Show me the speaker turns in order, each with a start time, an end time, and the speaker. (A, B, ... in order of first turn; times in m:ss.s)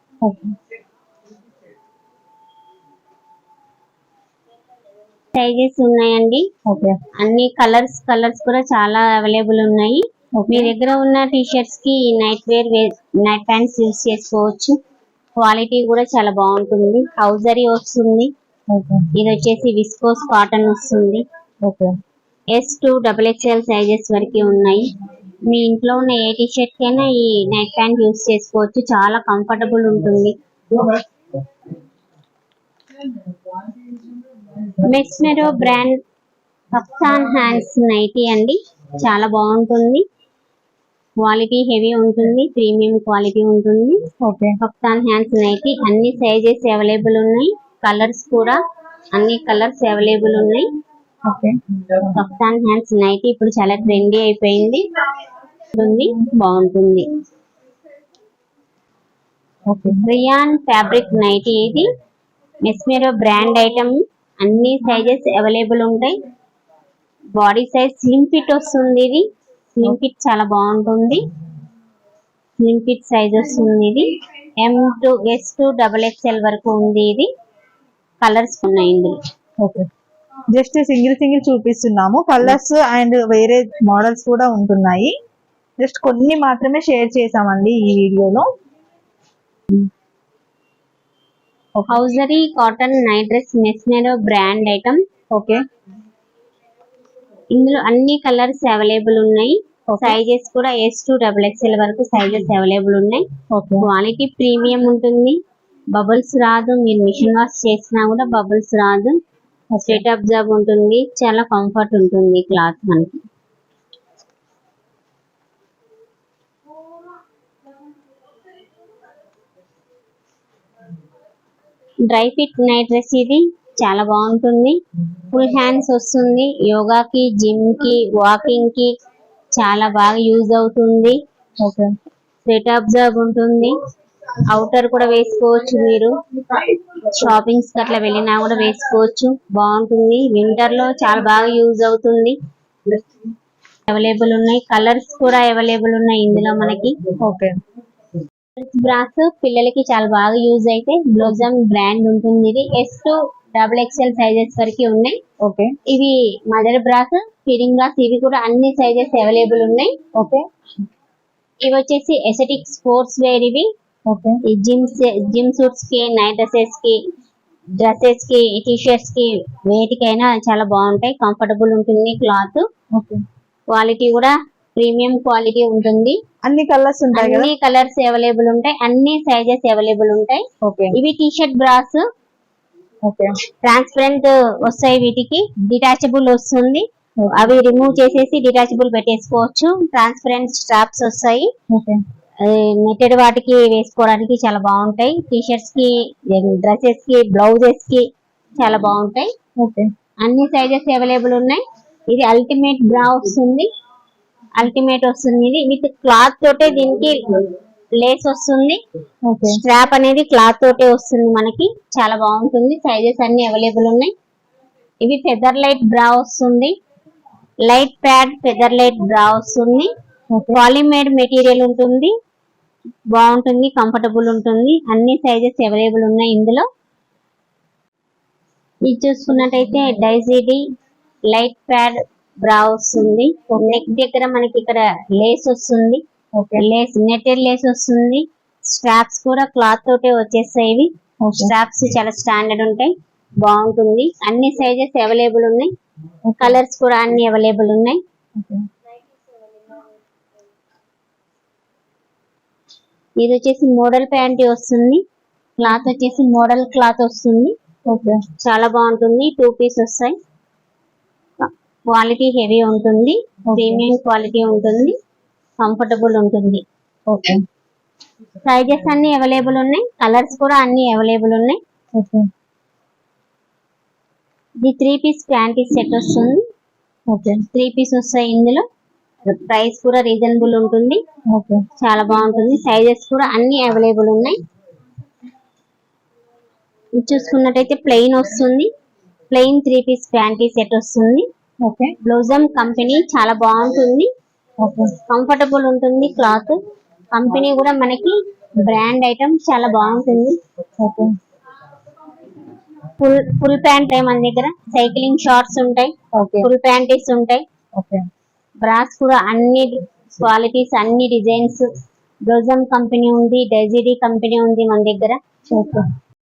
0:00.2-0:00.5 A
0:05.3-0:06.4 B
0:06.6-0:07.0 A
0:07.2-0:14.8 B
0:10.4-0:10.7 A
0:15.4-0:18.3 B
0:18.7-0:19.1 A
0:19.2-0:21.2 B
0:21.6-0:21.9 A
0:22.5-0:24.9 B
0:25.5-0:31.0 B
0:34.7-0:36.0 B
0:36.7-0:40.0 B
0:41.2-0:44.0 B
0:44.2-0:44.6 A
0:44.6-0:48.6 B
0:49.1-0:50.7 B
0:51.2-0:52.2 A
0:52.1-0:54.9 B
0:55.7-0:57.1 B
0:59.7-1:00.0 A
1:00.0-1:01.9 B
1:02.6-1:06.1 B
1:07.3-1:09.2 B
1:09.7-1:11.2 B
1:12.6-1:17.3 B
1:18.2-1:19.2 B
1:19.6-1:19.9 A
1:20.5-1:25.1 A
1:25.8-1:28.4 A
1:31.8-1:35.0 B
1:35.3-1:35.6 A
1:37.5-1:43.2 B
1:39.9-1:40.2 A
1:43.5-1:43.9 A
1:43.8-1:45.4 B
1:45.9-1:49.2 B
1:49.7-1:50.0 A
1:49.8-1:53.2 B
2:02.1-2:08.9 B
2:09.6-2:11.2 B
2:11.6-2:11.9 A
2:12.4-2:13.7 B
2:14.5-2:16.1 B
2:17.0-2:22.4 B
2:23.9-2:26.9 B
2:27.2-2:27.5 A
2:28.6-2:35.2 B
2:35.4-2:35.7 A
2:35.9-2:39.9 B
2:40.1-2:40.4 A
2:41.6-2:43.7 B
2:44.1-2:44.4 A
2:44.5-2:47.0 B
2:47.8-2:52.6 B
2:52.9-2:53.2 A
2:53.7-2:56.2 B
2:56.4-2:57.5 A
2:57.1-3:02.0 B
3:00.6-3:01.0 A
3:03.0-3:03.3 A
3:03.6-3:11.5 B
3:07.2-3:07.5 A
3:11.7-3:12.0 A
3:12.4-3:18.0 B
3:18.6-3:19.3 B
3:19.6-3:19.9 A
3:20.2-3:23.7 B
3:24.6-3:28.8 B
3:29.2-3:29.6 A
3:29.5-3:34.1 B
3:35.0-3:36.7 B
3:37.7-3:39.9 B
3:40.3-3:40.6 A
3:40.5-3:42.1 B
3:43.1-3:46.6 B
3:48.8-3:50.6 B
3:51.3-3:56.0 B
3:53.5-3:53.8 A
3:56.4-3:56.6 A
3:56.6-4:05.7 B
4:01.2-4:01.5 A
4:06.3-4:06.6 A
4:06.4-4:08.0 B
4:08.4-4:08.6 A
4:13.2-4:15.0 B
4:15.6-4:17.5 B
4:17.8-4:18.2 A
4:18.4-4:20.1 B
4:21.4-4:24.9 B
4:23.5-4:23.9 A
4:25.6-4:26.6 B
4:27.1-4:27.4 A
4:28.4-4:31.6 B
4:32.0-4:32.3 A
4:34.6-4:36.4 B
4:37.1-4:37.4 A
4:37.5-4:38.6 B
4:39.3-4:41.0 B
4:41.3-4:41.6 A
4:41.8-4:44.4 B
4:47.0-4:48.7 B
4:49.3-4:51.2 B
4:51.6-4:51.9 A
4:52.0-4:54.1 B
4:54.6-4:54.9 A
4:55.1-4:56.6 B
4:57.1-5:00.4 B
5:00.8-5:01.1 A
5:03.0-5:07.4 B
5:06.1-5:06.5 A
5:07.8-5:08.0 A
5:08.6-5:11.7 B
5:12.3-5:15.2 B
5:15.5-5:15.8 A